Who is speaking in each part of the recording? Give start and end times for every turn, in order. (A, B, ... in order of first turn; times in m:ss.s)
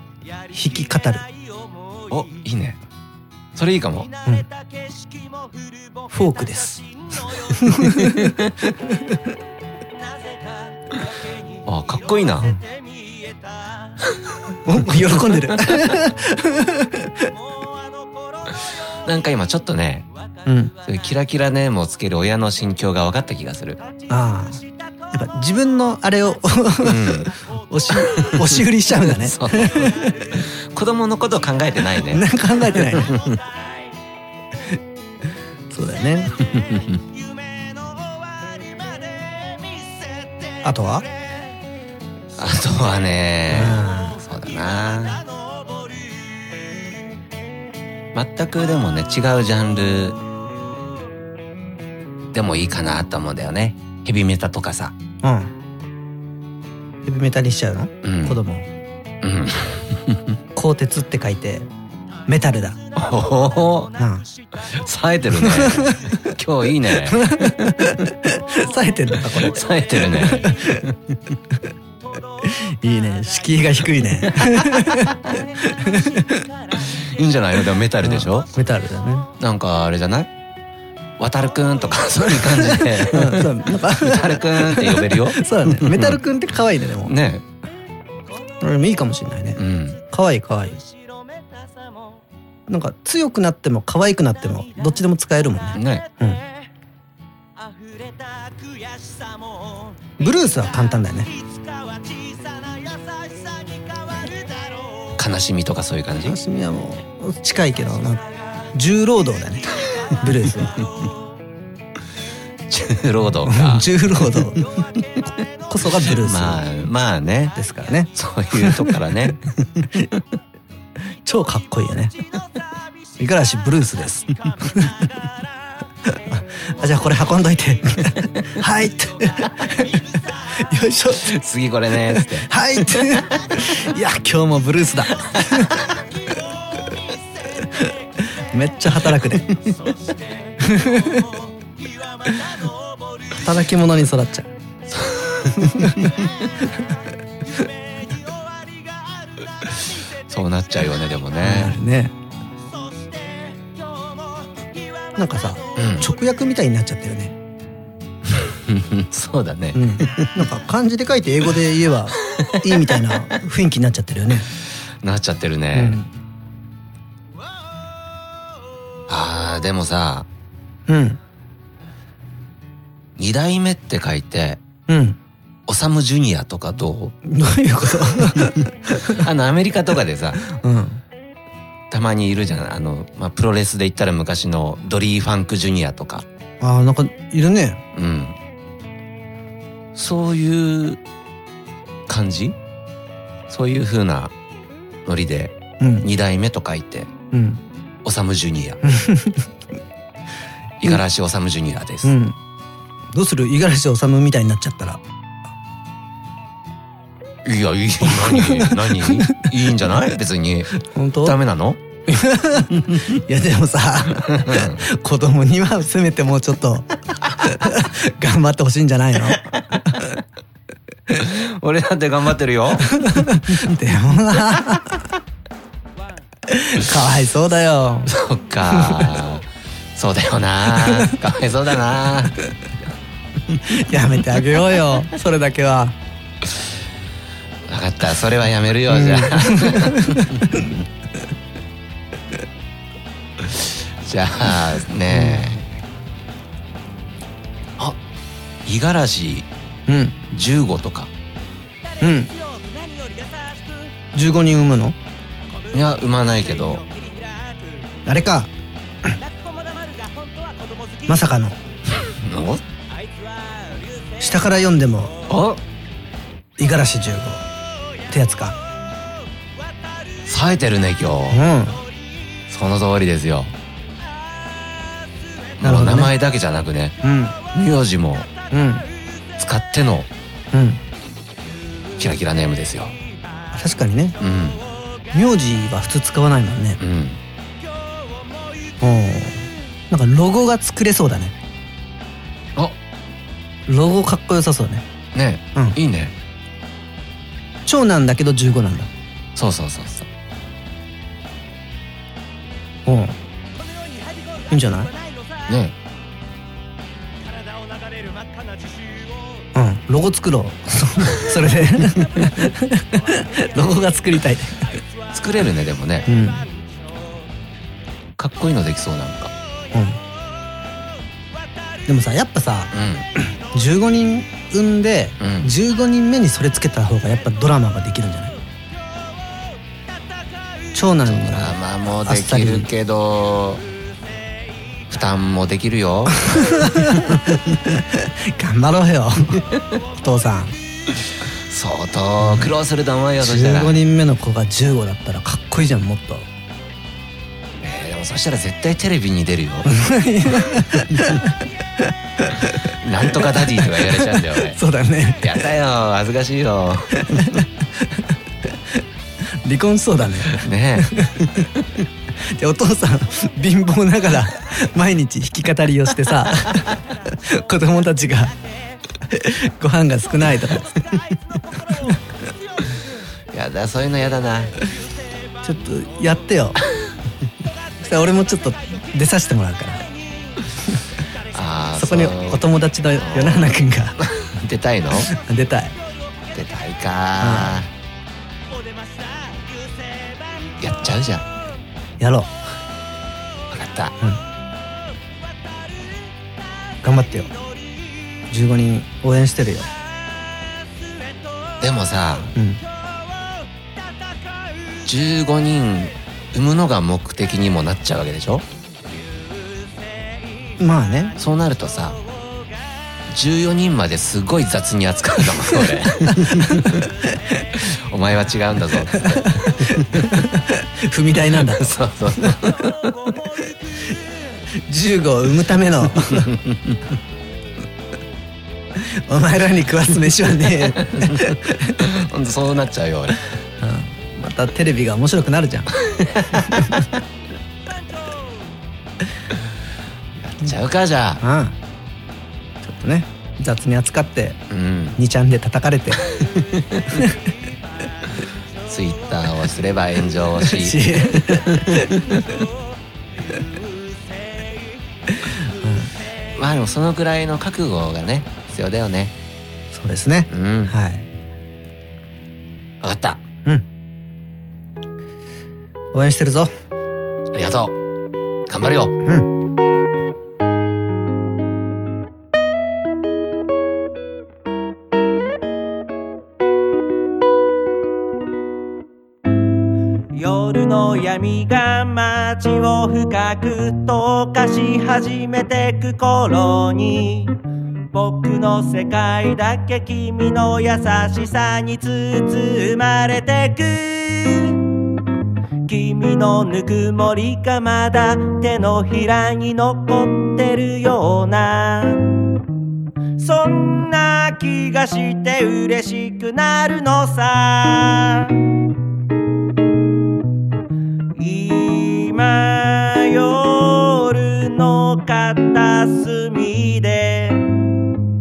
0:00.5-0:01.3 A
0:02.1-0:02.8 B
0:03.6-0:04.1 B
0:04.8-0:05.7 C
0:06.1-0:06.8 A
0:07.5-0:09.2 A
0:07.9-0:08.5 B
0:11.7-0:12.5 B
0:13.1-0:13.3 C
0:14.6-0:17.3 A
0:15.3-0:15.8 B
0:19.0-0:20.1 B
0:20.5-0:20.7 A
0:20.8-0:23.8 B
0:24.1-0:24.6 A
0:25.1-0:30.4 A
0:26.8-0:27.3 B
0:27.9-0:33.4 B
0:32.0-0:33.1 A
0:35.7-0:36.3 A
0:36.4-0:37.0 B
0:37.2-0:40.5 C
0:40.6-0:41.0 A
0:42.4-0:45.2 B
0:43.5-0:44.2 A
0:48.1-0:50.2 B
0:52.3-0:55.0 B
0:55.2-0:55.5 A
0:57.0-0:58.7 A
0:58.0-0:58.4 B
0:59.2-1:00.4 B
1:00.6-1:01.7 A
1:02.3-1:02.8 A
1:03.0-1:03.9 B
1:04.0-1:04.2 A
1:04.6-1:07.3 B
1:05.4-1:06.3 A
1:07.1-1:10.9 A
1:09.3-1:11.0 B
1:12.4-1:16.5 A
1:14.4-1:15.1 B
1:16.7-1:18.5 B
1:18.0-1:19.3 A
1:19.4-1:20.3 B
1:21.2-1:26.2 B
1:22.5-1:27.1 A
1:27.0-1:27.4 B
1:28.6-1:30.8 A
1:29.6-1:30.0 B
1:32.7-1:36.4 A
1:35.7-1:36.1 B
1:37.6-1:39.9 C
1:40.2-1:41.3 A
1:41.5-1:44.9 C
1:45.2-1:46.4 B
1:46.2-1:48.2 A
1:48.7-1:50.9 A
1:52.7-1:54.6 B
1:53.5-1:54.6 A
1:55.7-1:56.6 A
1:56.0-1:57.6 B
1:57.6-1:59.1 A
1:58.1-2:00.1 B
2:01.2-2:02.1 A
2:03.2-2:05.0 A
2:06.0-2:11.3 A
2:11.2-2:13.2 B
2:12.1-2:15.9 A
2:15.4-2:15.7 B
2:17.6-2:19.6 A
2:20.6-2:21.3 A
2:22.2-2:22.7 C
2:23.3-2:24.5 A
2:24.9-2:26.2 B
2:25.6-2:26.2 A
2:28.2-2:28.9 C
2:30.3-2:31.8 B
2:31.4-2:32.1 A
2:32.9-2:33.6 C
2:35.2-2:37.4 A
2:35.8-2:36.1 B
2:38.3-2:40.4 B
2:39.7-2:44.5 A
2:42.3-2:42.8 B
2:45.0-2:46.0 B
2:45.7-2:46.1 A
2:49.1-2:50.3 B
2:50.9-2:51.2 A
2:53.2-2:54.6 B
2:54.9-2:55.2 A
2:55.7-2:57.2 B
2:57.2-2:59.2 A
2:58.3-3:00.4 B
3:00.4-3:01.0 A
3:01.9-3:06.2 B
3:06.6-3:07.8 A
3:07.9-3:08.4 B
3:10.0-3:11.0 B
3:12.1-3:12.6 B
3:13.5-3:14.3 B
3:15.1-3:17.1 B
3:15.8-3:16.1 A
3:17.3-3:17.6 A
3:18.0-3:18.8 B
3:18.8-3:19.5 A
3:20.8-3:22.2 B
3:22.0-3:22.4 A
3:23.1-3:25.0 A
3:27.4-3:31.8 B
3:28.1-3:29.5 A
3:30.7-3:31.4 A
3:32.1-3:40.2 A
3:32.7-3:33.2 B
3:34.2-3:34.8 B
3:41.1-3:42.9 B
3:42.8-3:45.1 A
3:46.5-3:48.1 A
3:48.1-3:52.4 B
3:48.7-3:49.1 A
3:50.8-3:51.1 A
3:53.6-3:56.0 A
3:57.7-4:00.7 B
3:58.9-4:00.7 A
4:03.4-4:05.6 B
4:05.1-4:05.5 A
4:08.6-4:09.5 B
4:09.9-4:10.2 A
4:10.3-4:11.1 B
4:12.0-4:12.3 A
4:12.4-4:13.9 C
4:14.1-4:15.0 A
4:15.7-4:16.8 B
4:17.2-4:17.5 C
4:18.1-4:18.5 A
4:19.3-4:21.0 C
4:21.1-4:21.6 A
4:21.9-4:22.6 B
4:24.2-4:25.1 A
4:25.3-4:25.6 B
4:26.6-4:27.4 A
4:28.1-4:28.6 A
4:30.3-4:31.4 B
4:31.3-4:31.8 A
4:32.5-4:33.5 B
4:35.6-4:37.0 B
4:35.6-4:36.1 A
4:37.0-4:37.4 A
4:37.5-4:38.3 B
4:38.5-4:38.9 A
4:39.4-4:40.1 B
4:40.5-4:40.8 A
4:42.0-4:43.0 B
4:43.5-4:44.2 A
4:44.2-4:44.6 B
4:45.1-4:46.8 A
4:46.8-4:47.2 B
4:48.8-4:51.4 A
4:53.7-4:54.8 A
4:55.1-4:56.2 B
4:57.7-4:58.9 A
4:59.4-5:00.1 B
5:02.9-5:03.2 A
5:04.0-5:04.4 C
5:04.5-5:04.9 A
5:05.5-5:05.8 B
5:07.8-5:09.0 C
5:09.6-5:14.8 A
5:15.1-5:16.1 B
5:16.1-5:16.5 A
5:18.2-5:19.3 B
5:19.7-5:20.0 A
5:21.9-5:28.4 A
5:22.7-5:23.1 B
5:25.2-5:25.5 B
5:30.7-5:32.7 A
5:31.1-5:33.6 B
5:34.9-5:37.4 B
5:36.2-5:40.6 A
5:41.3-5:43.8 B
5:42.2-5:42.5 A
5:43.2-5:46.3 A
5:47.6-5:49.7 B
5:49.6-5:55.5 A
5:52.7-5:54.6 B
5:55.2-5:57.4 B
5:56.9-5:57.5 A
5:59.4-6:01.5 A
6:00.3-6:01.4 B
6:02.3-6:08.3 A
6:09.1-6:10.8 A
6:11.7-6:12.0 A
6:13.3-6:14.6 B
6:15.4-6:16.6 A
6:17.8-6:19.9 A
6:21.3-6:22.4 B
6:21.8-6:24.0 A
6:23.0-6:25.1 B
6:24.9-6:25.8 A
6:26.3-6:27.7 B
6:27.2-6:27.6 A
6:29.0-6:30.1 C
6:30.6-6:31.2 B
6:32.0-6:32.3 A
6:33.5-6:33.9 B
6:36.8-6:37.3 A
6:38.3-6:39.7 A
6:41.6-6:42.3 B
6:42.4-6:42.6 A
6:44.9-6:48.4 B
6:50.6-6:51.2 A
6:51.2-6:52.0 B
6:53.1-6:56.9 B
6:55.5-6:57.6 A
6:57.6-7:00.2 B
6:58.9-7:02.4 A
7:01.4-7:03.0 B
7:04.6-7:06.3 A
7:06.1-7:06.8 B
7:08.8-7:11.9 A
7:10.8-7:11.2 B
7:11.8-7:13.2 B
7:13.6-7:15.7 A
7:15.7-7:17.0 B
7:16.4-7:16.8 A
7:20.2-7:21.2 B
7:21.2-7:21.6 A
7:22.6-7:24.4 A
7:24.5-7:25.0 B
7:25.0-7:26.1 A
7:26.0-7:27.0 B
7:28.7-7:32.3 B
7:30.4-7:32.2 A
7:35.1-7:35.9 A
7:36.4-7:39.1 B
7:39.7-7:41.1 A
7:40.3-7:40.7 B
7:42.8-7:43.2 B
7:45.9-7:46.5 A
7:47.3-7:47.8 B
7:48.5-7:49.0 B
8:00.1-8:07.4 C
8:07.9-8:14.6 C
8:15.7-8:22.1 C
8:23.2-8:28.4 C
8:31.2-8:37.6 C